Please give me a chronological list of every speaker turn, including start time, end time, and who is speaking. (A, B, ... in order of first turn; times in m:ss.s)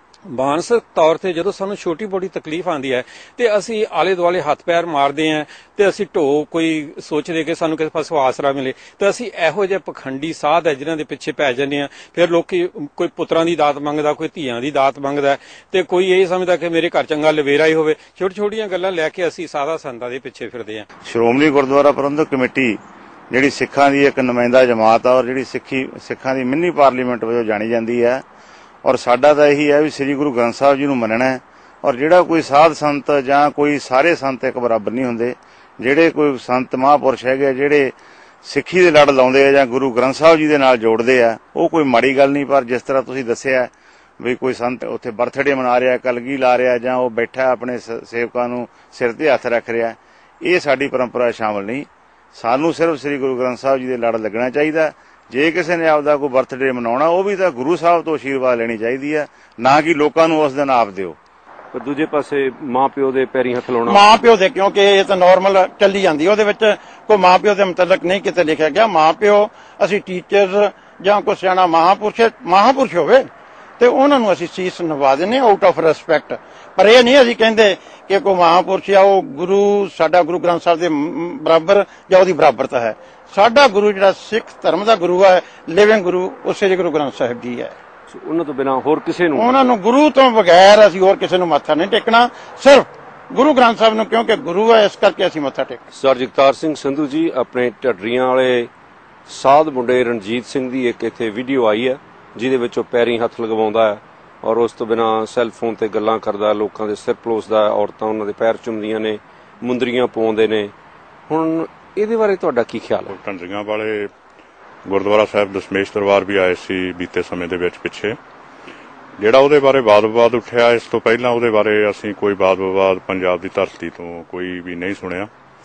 0:00.3-0:20.8 A
0:21.1-0:22.8 B
0:23.3-0:28.2 B
0:28.8-1:01.2 B
1:01.7-1:04.3 C
1:03.8-1:27.7 D
1:28.1-1:29.6 C
1:29.3-1:35.8 D
1:35.9-1:38.7 C
1:39.3-1:50.7 C
1:51.3-1:53.1 C
1:53.1-1:54.1 E
1:54.8-1:58.2 E
1:59.2-2:05.3 E